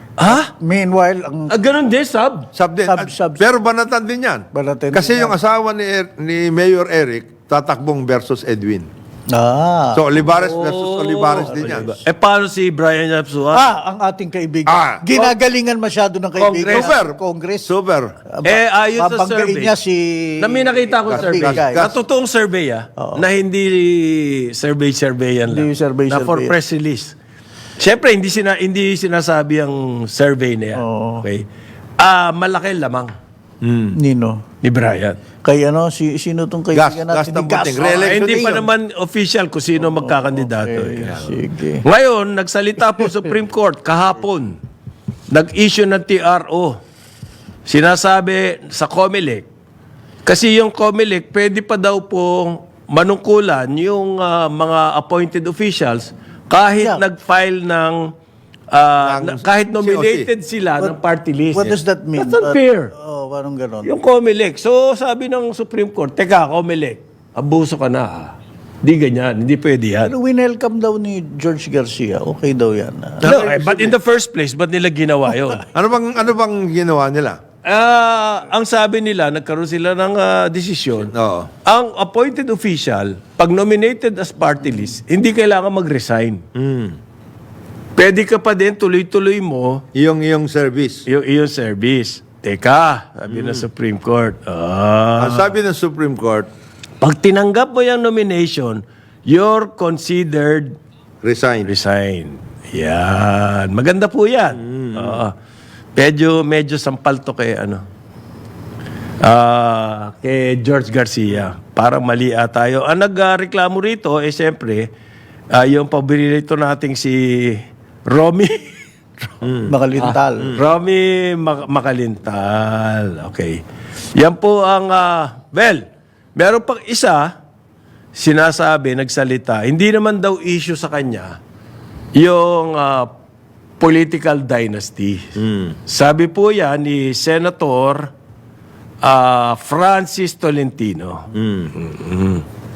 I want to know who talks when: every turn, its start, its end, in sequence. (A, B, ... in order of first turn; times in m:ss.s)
0:00.2-0:00.5 A
0:00.2-0:01.5 B
0:01.5-0:02.5 A
0:02.5-0:08.9 C
0:02.9-0:03.5 B
0:04.5-0:05.4 B
0:09.3-0:10.0 B
0:09.9-0:11.9 C
0:10.3-0:13.7 A
0:11.5-0:11.9 B
0:13.5-0:17.7 B
0:14.7-0:15.0 C
0:16.4-0:16.9 A
0:16.6-0:18.1 C
0:18.3-0:21.8 B
0:18.4-0:19.8 A
0:20.4-0:27.1 A
0:21.1-0:22.0 C
0:23.0-0:23.3 B
0:25.5-0:26.6 B
0:27.8-0:31.4 A
0:30.8-0:31.3 B
0:32.0-0:33.1 A
0:33.6-0:34.0 C
0:34.0-0:34.4 B
0:34.6-0:35.2 A
0:35.4-0:38.7 B
0:36.7-0:38.6 C
0:37.9-0:44.6 A
0:39.8-0:41.8 B
0:45.3-0:46.8 A
0:47.7-0:49.5 A
0:50.2-0:58.0 A
0:56.8-0:57.0 B
0:58.7-1:02.9 A
0:59.0-1:00.3 C
1:01.5-1:03.9 B
1:03.8-1:10.1 A
1:10.0-1:13.5 B
1:13.2-1:14.0 C
1:13.2-1:15.7 A
1:15.7-1:17.4 C
1:17.7-1:21.1 A
1:21.1-1:21.5 C
1:21.7-1:26.4 A
1:26.6-1:27.0 C
1:28.0-1:29.8 A
1:30.0-1:31.0 C
1:31.1-1:35.5 A
1:33.3-1:33.7 C
1:35.2-1:36.5 C
1:37.0-1:40.8 A
1:41.2-1:41.7 C
1:41.6-1:45.3 A
1:44.6-1:45.2 C
1:46.0-1:47.8 A
1:49.2-1:54.9 A
1:55.5-1:59.5 A
1:59.4-1:59.8 C
1:59.7-2:00.6 B
2:00.0-2:03.6 A
2:04.2-2:05.8 A
2:06.4-2:07.3 A
2:08.2-2:11.4 A
2:12.2-2:13.1 A
2:13.8-2:15.3 A
2:15.4-2:15.8 C
2:15.9-2:18.1 A
2:19.0-2:22.4 A
2:21.3-2:21.7 C